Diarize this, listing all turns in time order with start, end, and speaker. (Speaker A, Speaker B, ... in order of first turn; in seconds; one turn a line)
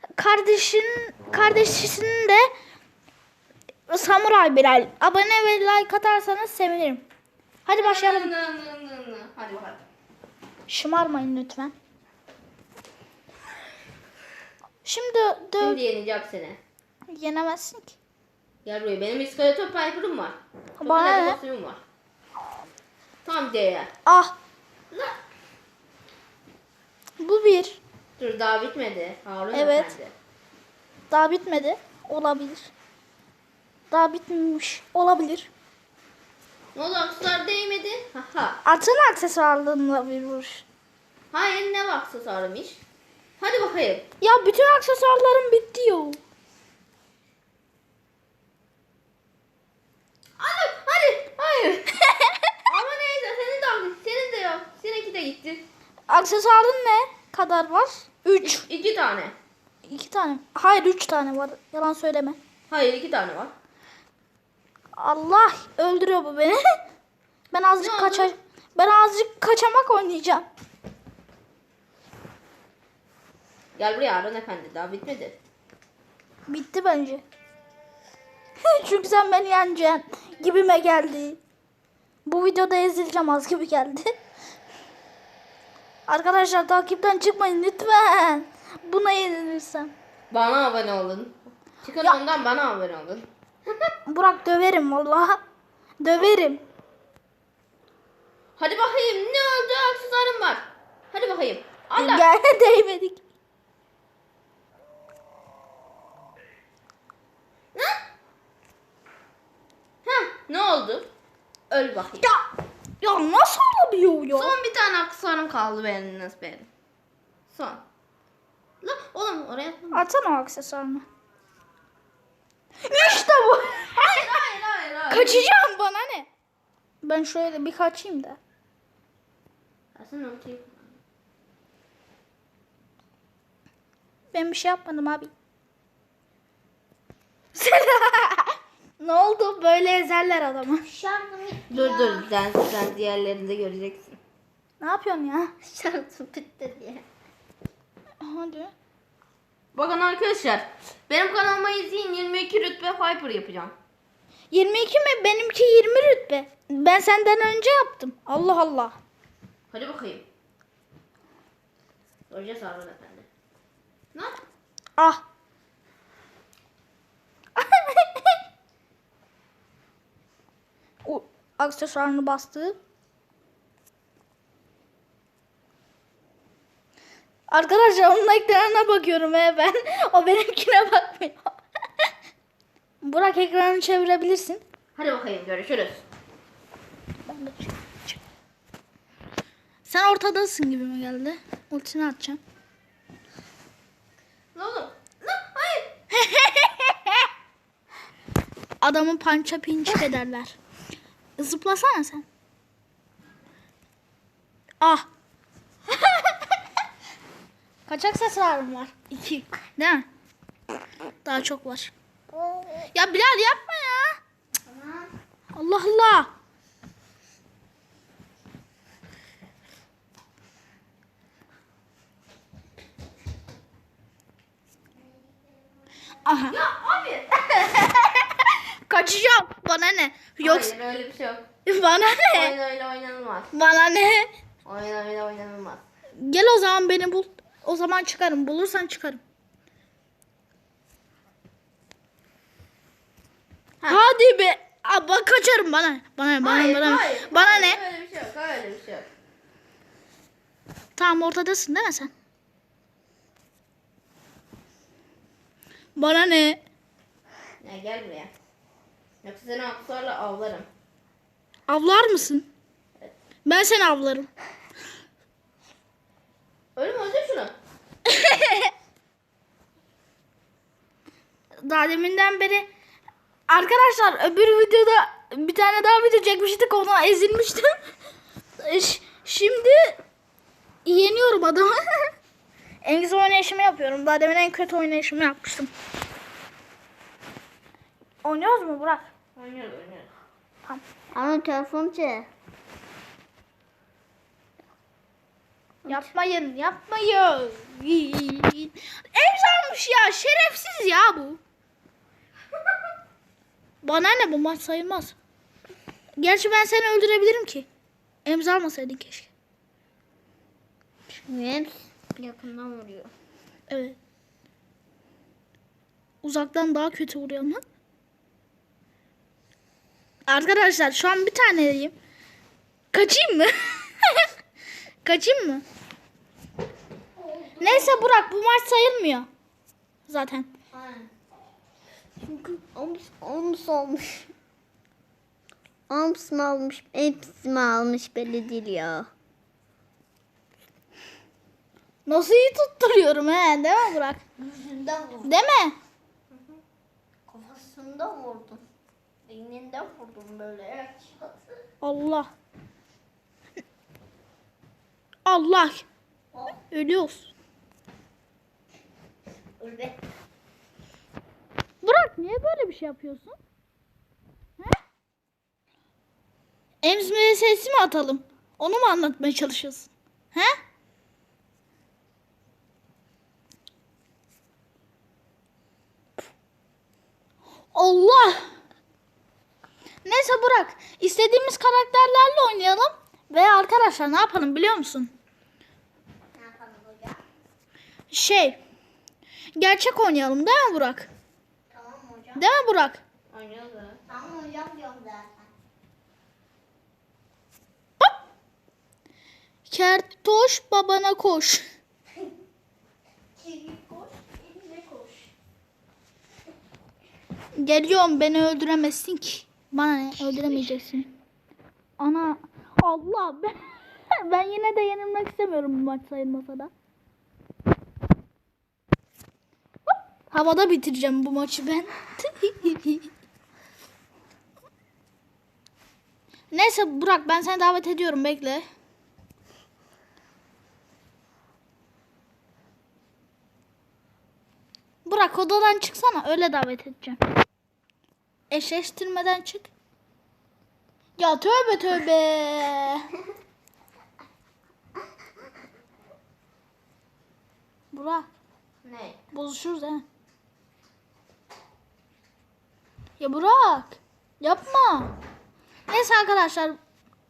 Speaker A: 0.1-2.5
Speaker A: 3.9-7.0
Speaker A: 7.7-8.3
Speaker B: 7.7-9.8
Speaker A: 10.7-11.7
Speaker A: 14.8-15.8
Speaker B: 15.6-16.6
Speaker A: 17.1-17.9
Speaker B: 18.6-21.8
Speaker A: 20.8-21.4
Speaker B: 23.2-23.9
Speaker A: 24.1-24.4
Speaker B: 24.9-25.2
Speaker A: 27.2-27.8
Speaker B: 28.2-30.1
Speaker A: 29.5-29.9
Speaker A: 31.1-32.7
Speaker A: 33.9-35.5
Speaker B: 36.7-38.6
Speaker A: 38.6-40.6
Speaker B: 41.3-42.8
Speaker B: 43.4-44.0
Speaker A: 44.2-46.2
Speaker B: 50.4-52.0
Speaker B: 52.6-55.6
Speaker A: 56.1-58.6
Speaker B: 58.4-59.3
Speaker A: 59.8-62.4
Speaker B: 62.7-63.5
Speaker A: 65.0-66.6
Speaker A: 67.5-70.5
Speaker B: 67.8-68.3
Speaker B: 73.8-75.4
Speaker A: 76.5-77.2
Speaker A: 78.6-81.4
Speaker A: 82.2-84.1
Speaker A: 86.1-89.9
Speaker B: 90.3-93.7
Speaker A: 94.0-95.4
Speaker A: 96.0-96.6
Speaker B: 98.6-102.3
Speaker A: 102.0-103.2
Speaker B: 107.7-108.0
Speaker B: 110.0-111.1
Speaker B: 111.7-112.3
Speaker A: 112.2-112.4
Speaker A: 113.0-114.5
Speaker B: 114.3-116.7
Speaker B: 117.5-117.8
Speaker B: 118.8-120.0
Speaker A: 119.9-121.0
Speaker A: 122.8-124.4
Speaker B: 123.9-125.5
Speaker A: 125.1-126.3
Speaker A: 127.0-128.4
Speaker B: 129.9-130.9
Speaker A: 134.3-135.3
Speaker A: 137.5-140.8
Speaker C: 140.8-142.3
Speaker B: 141.7-144.2
Speaker A: 144.8-145.5
Speaker C: 145.6-147.0
Speaker A: 148.2-148.7
Speaker B: 149.7-153.7
Speaker A: 154.5-158.9
Speaker B: 159.7-160.2
Speaker B: 162.3-163.3
Speaker B: 164.1-164.4
Speaker A: 165.0-165.2
Speaker A: 167.6-168.4
Speaker A: 171.0-172.8
Speaker A: 177.5-182.1
Speaker A: 183.0-184.6
Speaker B: 184.9-186.0
Speaker A: 187.2-188.2
Speaker A: 189.8-192.4
Speaker B: 194.5-195.9
Speaker A: 196.1-197.3
Speaker A: 198.8-200.5
Speaker A: 201.4-202.2
Speaker A: 204.8-205.1
Speaker A: 206.0-206.4
Speaker A: 207.9-210.1
Speaker A: 211.2-211.9
Speaker C: 212.3-212.9
Speaker A: 212.9-214.2
Speaker C: 214.7-215.1
Speaker A: 215.5-216.3
Speaker A: 226.2-226.6
Speaker B: 226.5-227.5
Speaker A: 227.6-230.7
Speaker B: 230.4-231.4
Speaker A: 231.6-232.5
Speaker B: 232.3-233.5
Speaker A: 233.5-234.3
Speaker B: 234.6-235.8
Speaker A: 236.2-239.2
Speaker A: 243.8-247.8
Speaker B: 246.4-249.1
Speaker A: 250.9-252.1
Speaker A: 255.9-256.6
Speaker B: 257.6-258.3
Speaker B: 259.2-260.7
Speaker A: 261.7-262.5
Speaker A: 263.4-264.3
Speaker B: 266.8-267.5
Speaker A: 268.1-268.7
Speaker A: 271.6-272.7
Speaker A: 273.5-277.7
Speaker A: 278.6-279.9
Speaker A: 280.8-282.1
Speaker A: 282.8-285.7
Speaker A: 288.2-289.1
Speaker B: 289.4-290.1
Speaker C: 291.1-292.3
Speaker C: 295.8-296.1
Speaker A: 295.9-301.4
Speaker A: 303.8-305.1
Speaker A: 306.2-307.7
Speaker A: 308.2-309.3
Speaker C: 311.1-313.1
Speaker A: 313.7-314.0
Speaker A: 316.2-317.6
Speaker A: 320.3-321.9
Speaker A: 322.9-324.3
Speaker A: 325.0-325.6
Speaker C: 327.2-328.0
Speaker A: 327.6-329.3
Speaker A: 330.1-330.5
Speaker C: 330.7-331.1
Speaker C: 332.2-334.2
Speaker C: 335.9-339.1
Speaker A: 342.1-344.2
Speaker C: 344.4-345.3
Speaker A: 345.2-345.7
Speaker C: 347.3-348.6
Speaker C: 349.3-351.4
Speaker A: 351.8-352.3
Speaker A: 355.2-355.9
Speaker A: 356.7-357.3
Speaker C: 359.6-360.0
Speaker A: 361.8-363.4
Speaker A: 366.8-370.6
Speaker A: 377.7-378.5
Speaker A: 380.0-385.1
Speaker C: 386.3-387.2
Speaker A: 388.1-388.6
Speaker A: 389.6-391.1
Speaker C: 391.7-392.4
Speaker A: 392.4-393.0
Speaker B: 393.3-394.0
Speaker C: 394.1-395.5
Speaker A: 399.7-401.6
Speaker C: 403.4-405.3
Speaker A: 407.6-411.1
Speaker A: 412.0-416.7
Speaker A: 420.3-423.1
Speaker A: 426.5-428.6
Speaker A: 435.0-437.2
Speaker A: 438.5-439.7
Speaker A: 441.2-443.1
Speaker A: 447.9-448.3
Speaker B: 448.8-449.2
Speaker A: 449.3-450.0
Speaker A: 453.2-455.1
Speaker A: 455.9-456.8